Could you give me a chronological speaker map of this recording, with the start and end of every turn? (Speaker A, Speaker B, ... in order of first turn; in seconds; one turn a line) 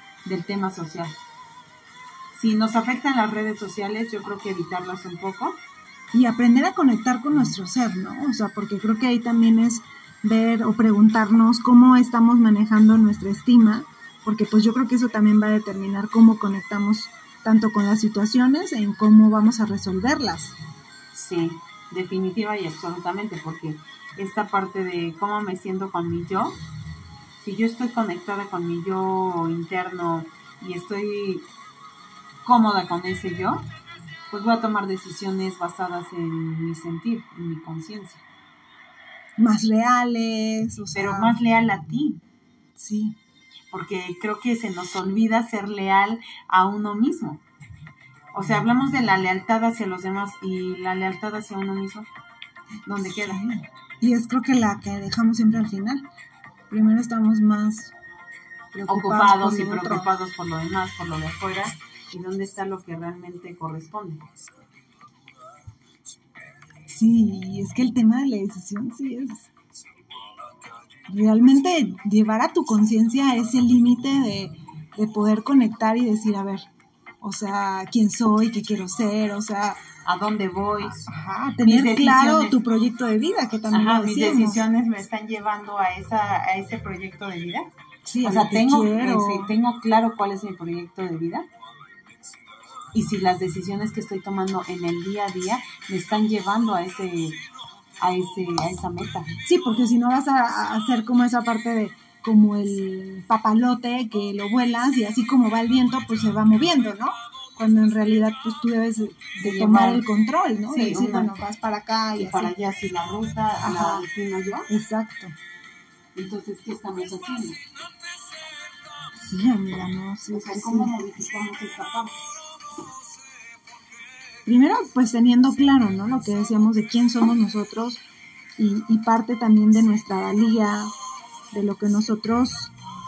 Speaker A: 0.2-1.1
Speaker A: 2.3-5.6
Speaker B: 6.1-20.5
Speaker A: 21.1-26.6
Speaker A: 27.4-31.4
Speaker A: 32.4-33.6
Speaker A: 34.3-38.2
Speaker B: 39.4-41.4
Speaker A: 40.9-42.2
Speaker B: 42.8-43.1
Speaker A: 43.7-47.4
Speaker A: 48.3-52.1
Speaker A: 52.8-53.4
Speaker B: 53.3-56.0
Speaker B: 56.7-57.9
Speaker B: 58.7-60.1
Speaker A: 58.9-64.2
Speaker B: 66.9-69.5
Speaker B: 71.1-76.6
Speaker B: 77.2-79.8
Speaker A: 80.0-81.0
Speaker B: 81.0-84.6
Speaker A: 81.6-82.5
Speaker A: 83.7-87.7
Speaker B: 88.1-89.5
Speaker A: 88.2-91.5
Speaker A: 92.9-97.4
Speaker A: 98.0-99.3
Speaker B: 99.4-112.5
Speaker A: 109.4-110.0
Speaker A: 110.7-111.3
Speaker A: 112.2-114.7
Speaker B: 113.6-114.0
Speaker B: 114.7-115.3
Speaker A: 116.1-117.6
Speaker B: 119.1-120.9
Speaker A: 120.3-122.2
Speaker B: 124.4-128.0
Speaker B: 128.6-130.9
Speaker B: 131.5-132.7